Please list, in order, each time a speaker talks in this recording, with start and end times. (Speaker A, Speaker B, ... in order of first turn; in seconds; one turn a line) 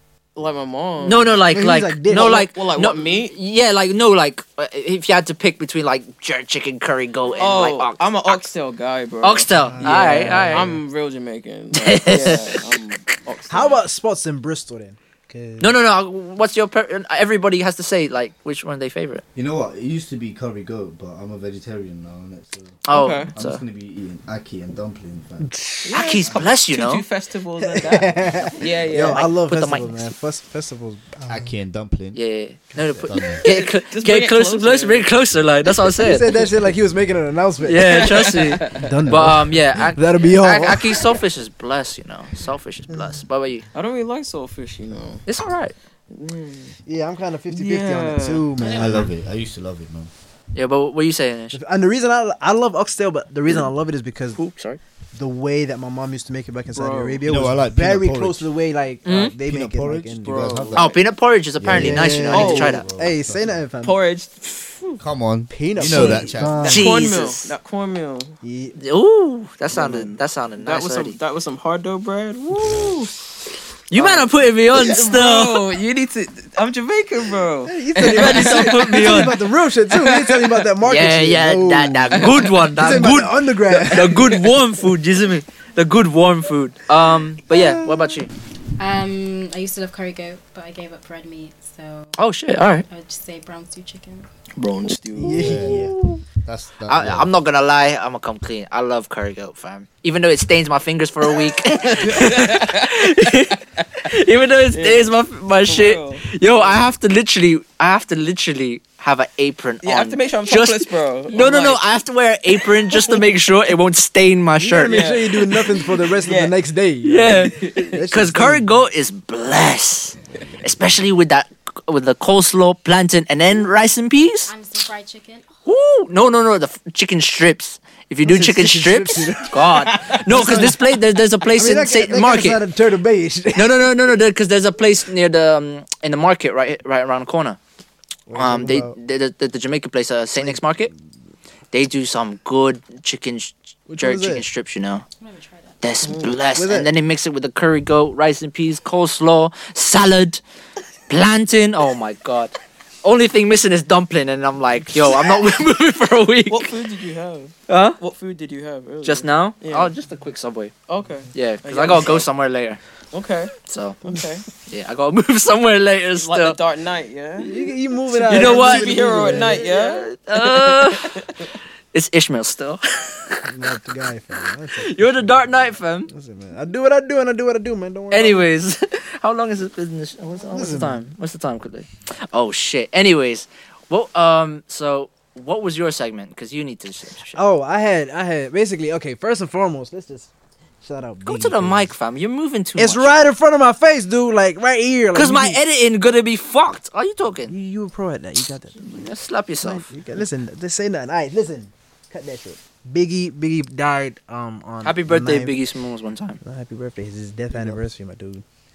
Speaker A: 0.3-1.4
Speaker B: 1.0-8.4
Speaker C: 1.5-2.5
Speaker A: 2.1-3.3
Speaker A: 7.4-13.8
Speaker B: 9.2-10.7
Speaker C: 9.6-10.8
Speaker B: 11.7-12.8
Speaker C: 13.5-15.7
Speaker B: 15.6-19.2
Speaker D: 19.3-22.8
Speaker B: 22.9-23.6
Speaker A: 22.9-23.3
Speaker D: 23.3-25.5
Speaker C: 25.4-26.3
Speaker A: 25.8-29.3
Speaker B: 25.9-27.0
Speaker C: 27.6-31.5
Speaker B: 29.0-30.1
Speaker D: 31.2-32.2
Speaker B: 32.1-36.3
Speaker D: 32.8-33.4
Speaker A: 33.4-35.1
Speaker C: 35.9-41.1
Speaker B: 37.6-43.6
Speaker A: 37.8-38.9
Speaker C: 42.9-43.2
Speaker A: 43.7-45.2
Speaker B: 45.3-45.7
Speaker A: 46.1-46.7
Speaker C: 46.9-49.1
Speaker A: 47.5-48.5
Speaker E: 48.6-49.1
Speaker D: 48.7-50.1
Speaker B: 50.5-51.6
Speaker C: 51.5-54.4
Speaker B: 54.4-54.8
Speaker C: 55.1-60.8
Speaker A: 56.7-57.2
Speaker D: 57.2-58.5
Speaker B: 59.0-59.3
Speaker D: 59.4-60.9
Speaker A: 60.3-61.0
Speaker B: 60.8-62.8
Speaker D: 61.6-63.6
Speaker C: 61.7-64.0
Speaker A: 62.3-62.8
Speaker A: 63.8-65.0
Speaker D: 65.0-66.9
Speaker C: 65.5-67.0
Speaker A: 65.8-68.4
Speaker B: 66.7-67.5
Speaker C: 68.4-68.8
Speaker B: 68.8-71.2
Speaker C: 69.7-70.2
Speaker A: 70.6-73.1
Speaker B: 73.9-75.7
Speaker A: 74.0-79.2
Speaker C: 77.7-84.3
Speaker B: 78.0-79.4
Speaker A: 80.2-80.5
Speaker B: 80.8-88.3
Speaker A: 82.2-82.5
Speaker C: 87.5-88.1
Speaker E: 88.8-92.2
Speaker B: 92.2-92.8
Speaker E: 92.9-94.3
Speaker A: 94.5-95.7
Speaker C: 95.2-96.2
Speaker D: 95.3-97.3
Speaker B: 96.9-115.8
Speaker A: 101.7-103.0
Speaker A: 104.7-105.1
Speaker A: 105.7-106.8
Speaker A: 109.8-111.9
Speaker A: 112.9-113.2
Speaker C: 114.6-118.7
Speaker A: 114.8-115.4
Speaker A: 116.2-116.5
Speaker B: 117.0-124.5
Speaker A: 117.4-118.0
Speaker E: 124.5-125.6
Speaker B: 125.7-132.6
Speaker C: 128.2-129.7
Speaker A: 129.7-130.8
Speaker C: 130.3-130.8
Speaker C: 131.5-133.9
Speaker B: 133.5-137.6
Speaker C: 138.3-138.9
Speaker B: 138.3-140.9
Speaker B: 141.7-145.0
Speaker C: 143.9-144.4
Speaker E: 145.2-145.8
Speaker B: 145.8-150.4
Speaker C: 146.0-146.9
Speaker B: 151.1-156.7
Speaker A: 156.5-159.9
Speaker B: 157.7-158.0
Speaker B: 159.0-160.7
Speaker A: 160.9-162.3
Speaker B: 161.3-162.8
Speaker A: 163.1-164.4
Speaker B: 163.7-166.6
Speaker A: 166.2-171.5
Speaker C: 167.4-169.7
Speaker B: 168.2-171.2
Speaker B: 171.9-173.4
Speaker C: 173.4-178.5
Speaker B: 174.8-176.1
Speaker B: 178.1-187.4
Speaker C: 180.5-181.0
Speaker C: 187.3-190.3
Speaker C: 190.8-191.9
Speaker B: 191.2-193.1
Speaker C: 192.8-195.6
Speaker B: 195.1-197.5
Speaker C: 197.5-205.6
Speaker B: 198.9-199.9
Speaker B: 204.8-206.4
Speaker C: 206.4-208.4